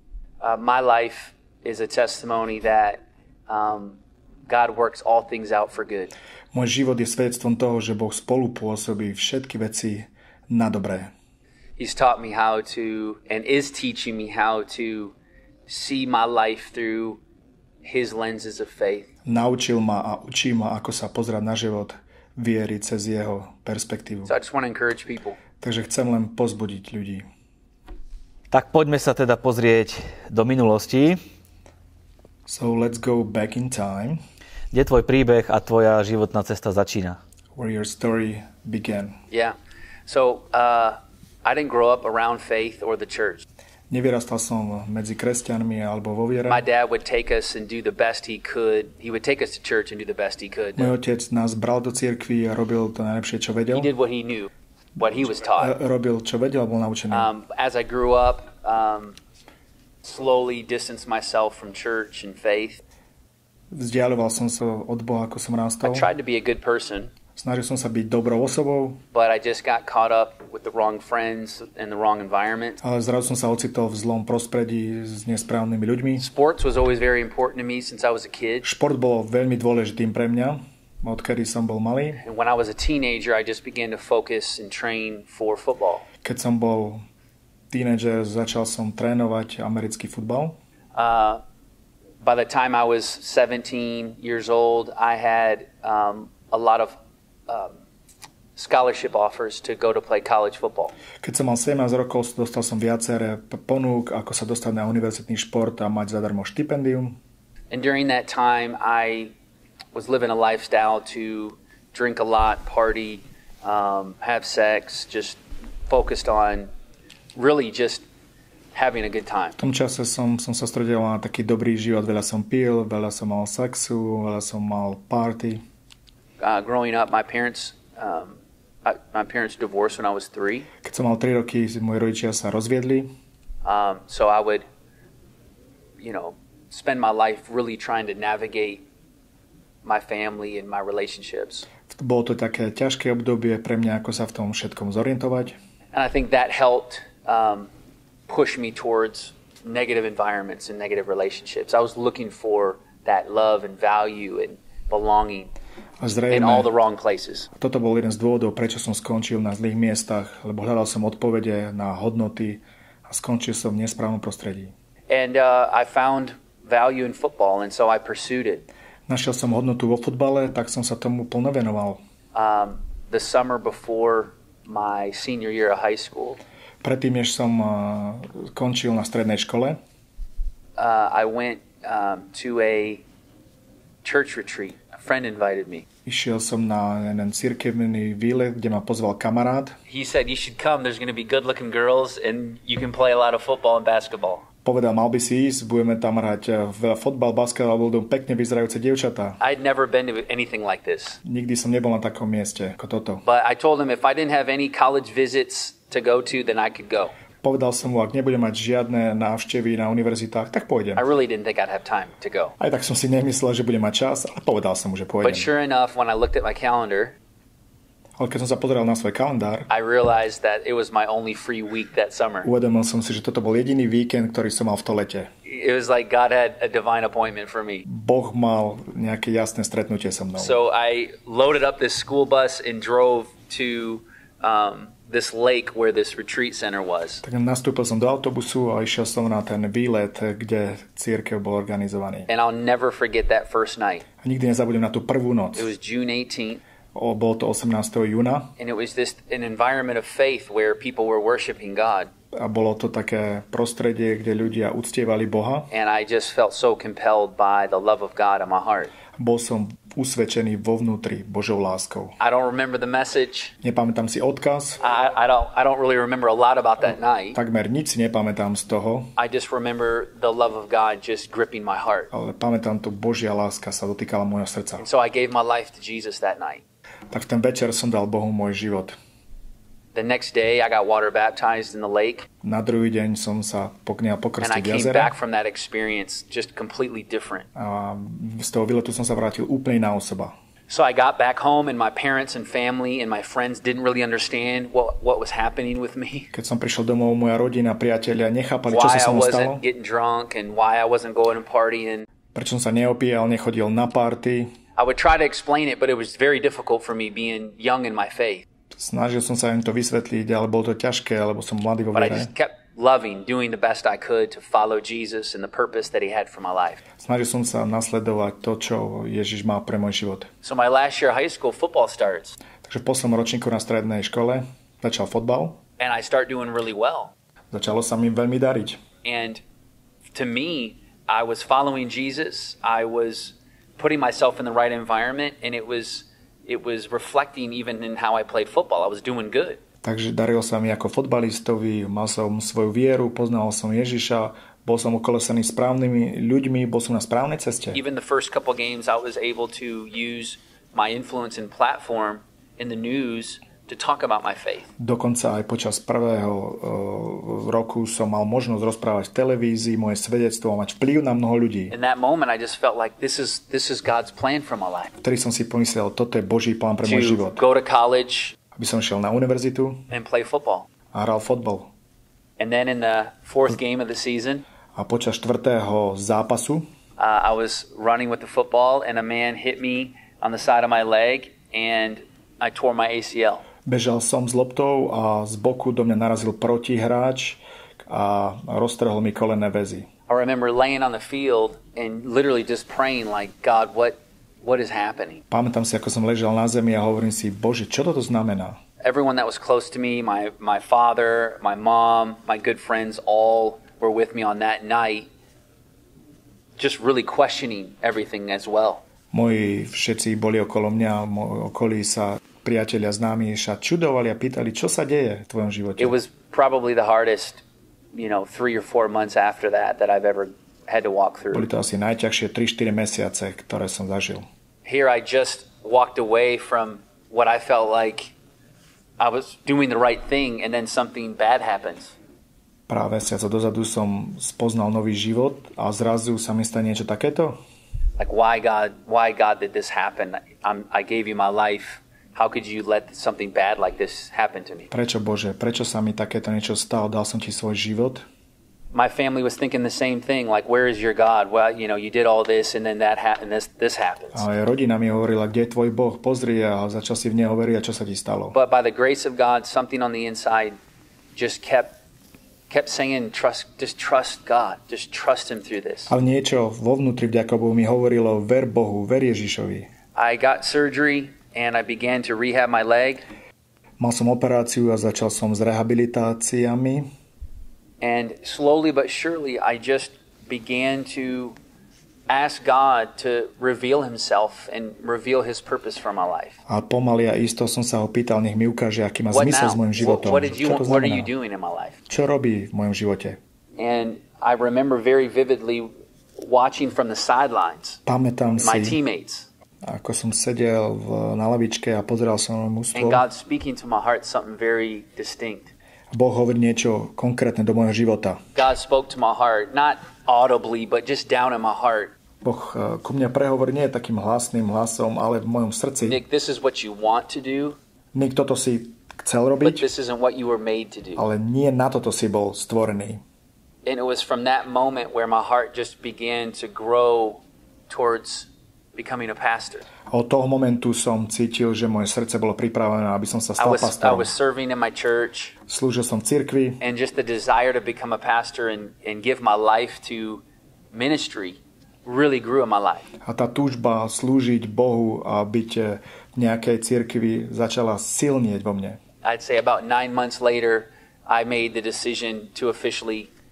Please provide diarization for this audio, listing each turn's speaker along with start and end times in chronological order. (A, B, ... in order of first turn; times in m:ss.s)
0:00.4-0:06.1 A
0:06.5-0:11.1 B
0:11.8-0:15.1 A
0:15.7-0:17.2 A
0:17.8-0:19.1 A
0:19.2-0:24.3 B
0:24.2-0:25.4 A
0:25.6-0:27.2 B
0:28.5-0:31.2 C
0:32.5-0:34.2 B
0:34.7-0:37.2 C
0:37.5-0:39.2 B
0:39.3-0:43.4 A
0:43.9-0:46.6 B
0:46.5-0:50.9 A
0:50.8-0:53.9 B
0:53.7-0:55.7 A
0:55.5-0:57.3 B
0:57.1-0:59.2 A
1:00.0-1:02.8 A
1:03.7-1:06.1 B
1:05.8-1:07.1 A
1:07.4-1:09.0 B
1:09.1-1:12.8 A
1:12.8-1:16.3 B
1:16.2-1:18.7 A
1:18.6-1:22.2 B
1:22.2-1:26.0 A
1:26.2-1:27.0 B
1:27.7-1:30.6 B
1:30.9-1:31.4 A
1:32.2-1:37.0 A
1:37.5-1:37.7 A
1:38.6-1:40.9 A
1:41.2-1:47.2 B
1:47.7-1:49.3 A
1:49.9-1:56.7 A
1:57.3-1:58.0 A
1:58.7-1:59.6 A
1:59.6-2:05.6 B
2:06.4-2:10.7 A
2:10.8-2:13.1 B
2:13.6-2:14.6 A
2:16.0-2:18.8 A
2:19.8-2:21.7 A
2:21.9-2:25.6 B
2:25.9-2:27.7 A
2:28.3-2:35.5 A
2:36.0-2:36.7 B
2:36.3-2:37.5 A
2:37.6-2:44.7 B
2:45.1-2:48.6 A
2:49.1-2:52.0 B
2:52.3-2:56.4 A
2:56.8-2:59.8 B
3:00.8-3:03.0 A
3:04.0-3:05.8 A
3:06.0-3:09.8 B
3:09.9-3:14.4 A
3:14.6-3:19.4 B
3:19.4-3:21.2 A
3:21.2-3:23.2 B
3:23.2-3:27.1 A
3:27.4-3:31.0 B
3:31.0-3:32.5 A
3:32.6-3:35.5 B
3:35.2-3:37.1 A
3:38.2-3:39.7 B
3:39.7-3:42.5 A
3:42.4-3:45.3 B
3:45.4-3:47.8 A
3:47.8-3:50.6 B
3:50.4-3:57.2 A
3:57.2-4:02.3 B
4:02.3-4:04.0 A
4:04.2-4:05.7 B
4:05.5-4:06.6 A
4:06.9-4:08.5 B
4:08.6-4:12.1 A
4:12.3-4:15.7 B
4:15.7-4:18.9 A
4:19.2-4:22.1 B
4:22.2-4:23.5 A
4:23.6-4:24.8 B
4:24.8-4:27.4 A
4:27.3-4:29.1 B
4:29.2-4:32.1 A
4:32.1-4:34.8 B
4:34.8-4:36.6 A
4:37.1-4:38.9 B
4:39.9-4:42.3 A
4:42.4-4:45.1 B
4:44.4-4:47.5 A
4:47.5-4:50.3 B
4:50.7-4:56.3 A
4:56.3-4:59.6 B
4:58.7-5:02.0 A
5:02.3-5:04.5 B
5:04.8-5:08.4 A
5:08.7-5:12.3 B
5:11.9-5:16.8 A
5:17.0-5:20.3 B
5:20.4-5:22.4 A
5:22.6-5:25.6 B
5:25.8-5:27.1 A
5:27.5-5:28.8 B
5:29.0-5:29.4 A
5:30.1-5:39.6 A
5:39.8-5:47.8 B
5:47.7-5:54.7 A
5:54.8-6:01.7 B
6:01.7-6:04.9 A
6:05.0-6:07.4 B
6:06.8-6:08.4 A
6:08.6-6:09.8 B
6:09.9-6:10.7 A
6:10.9-6:11.7 B
6:12.4-6:14.4 A
6:14.7-6:16.7 B
6:17.0-6:23.4 A
6:23.6-6:29.9 B
6:30.1-6:35.2 A
6:35.3-6:38.6 B
6:38.8-6:45.1 A
6:46.6-6:48.8 A
6:49.1-6:55.9 B
6:55.8-6:57.4 A
6:57.9-7:01.5 A
7:01.3-7:04.2 B
7:04.6-7:08.1 A
7:09.0-7:11.9 A
7:12.7-7:17.4 B
7:18.0-7:24.7 A
7:24.7-7:28.0 B
7:28.7-7:34.2 A
7:34.1-7:38.4 B
7:38.3-7:40.6 A
7:41.1-7:41.8 A
7:42.5-7:45.9 A
7:45.9-7:49.7 B
7:49.9-7:53.0 A
7:53.8-7:56.9 B
7:57.8-8:01.4 A
8:02.1-8:06.4 A
8:06.5-8:11.1 B
8:09.1-8:11.8 A
8:11.9-8:13.2 B
8:13.6-8:17.8 A
8:17.8-8:18.8 B
8:18.4-8:19.3 A
8:19.6-8:23.0 B
8:22.7-8:25.5 A
8:25.9-8:28.2 B
8:28.3-8:31.9 A
8:32.2-8:36.0 B
8:35.8-8:37.6 A
8:37.9-8:39.6 B
8:39.4-8:41.0 A
8:41.0-8:43.0 B
8:43.6-8:49.6 A
8:49.9-8:54.1 B
8:53.4-8:55.3 A
8:55.5-8:56.6 B
8:56.6-9:02.9 A
9:03.0-9:08.8 B
9:09.0-9:13.1 A